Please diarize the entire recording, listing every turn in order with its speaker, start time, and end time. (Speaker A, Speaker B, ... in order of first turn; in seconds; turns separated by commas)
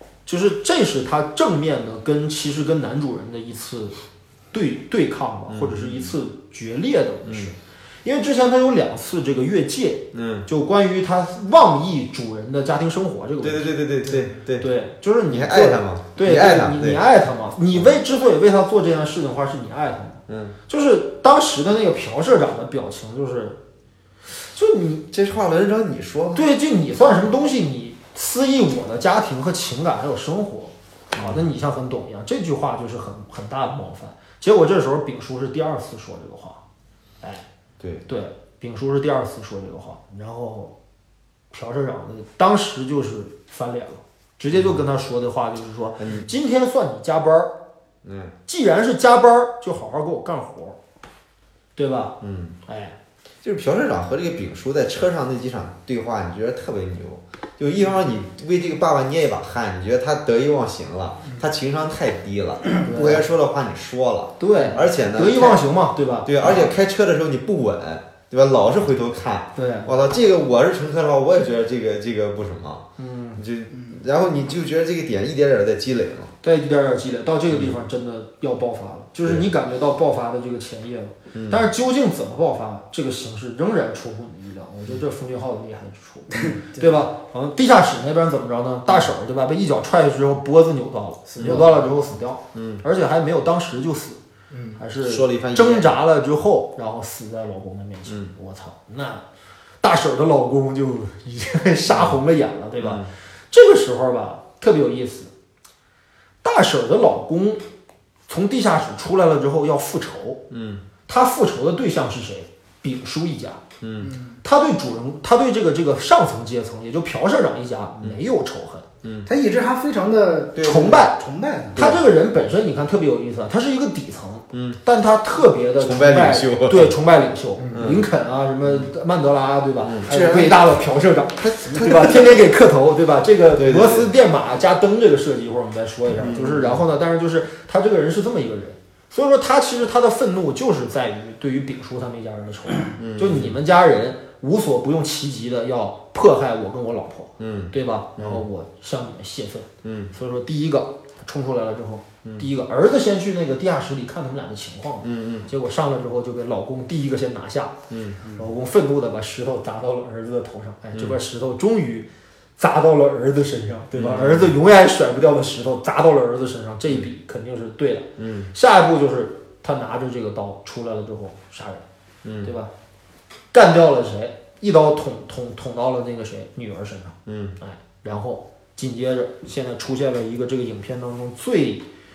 Speaker A: 0.3-4.0, Speaker A: 4.5-13.7, Speaker B: 5.5-6.1, Speaker B: 7.3-7.5, Speaker B: 10.1-10.5, Speaker B: 13.4-14.7, Speaker A: 14.6-23.6, Speaker B: 15.3-17.1, Speaker B: 20.3-20.6, Speaker A: 24.3-25.1, Speaker B: 25.1-26.5, Speaker A: 26.3-36.6, Speaker B: 31.1-31.4, Speaker B: 37.8-38.0, Speaker A: 38.1-40.8, Speaker A: 41.5-47.5, Speaker B: 46.0-46.3, Speaker B: 48.0-48.3, Speaker A: 48.5-50.8, Speaker A: 51.8-53.0, Speaker B: 52.2-52.6, Speaker B: 53.4-65.7, Speaker A: 62.9-63.2, Speaker A: 64.4-66.7, Speaker B: 66.2-76.3, Speaker A: 69.6-69.9, Speaker A: 73.0-73.4, Speaker A: 76.4-94.2, Speaker B: 77.5-77.8, Speaker B: 81.3-81.7, Speaker C: 86.3-87.0, Speaker C: 91.3-91.9, Speaker B: 92.5-92.8, Speaker C: 94.5-94.8, Speaker A: 94.8-99.2, Speaker B: 95.0-96.0, Speaker A: 99.8-105.3, Speaker B: 101.9-102.2, Speaker B: 102.8-103.1, Speaker A: 106.4-107.6, Speaker A: 108.3-110.4, Speaker B: 110.5-110.8, Speaker A: 111.1-113.6, Speaker B: 113.8-114.1, Speaker C: 114.0-114.4, Speaker A: 114.4-118.9, Speaker B: 119.0-119.3, Speaker C: 119.3-121.9, Speaker B: 120.5-121.1, Speaker A: 120.6-121.2, Speaker B: 121.8-122.0, Speaker A: 121.8-157.8, Speaker B: 124.5-124.8, Speaker B: 125.8-127.0, Speaker B: 127.7-128.1, Speaker B: 128.6-128.9, Speaker B: 129.8-130.1, Speaker C: 130.1-130.6, Speaker B: 131.4-132.4, Speaker B: 133.6-134.1, Speaker B: 136.2-136.8, Speaker B: 143.0-143.6, Speaker B: 147.4-148.4, Speaker B: 149.8-150.1, Speaker B: 155.0-155.5, Speaker B: 157.9-158.2, Speaker A: 158.3-171.8, Speaker B: 163.9-164.5, Speaker B: 168.2-168.5, Speaker B: 172.2-172.5, Speaker A: 172.4-172.7, Speaker A: 173.5-181.9, Speaker B: 177.3-177.6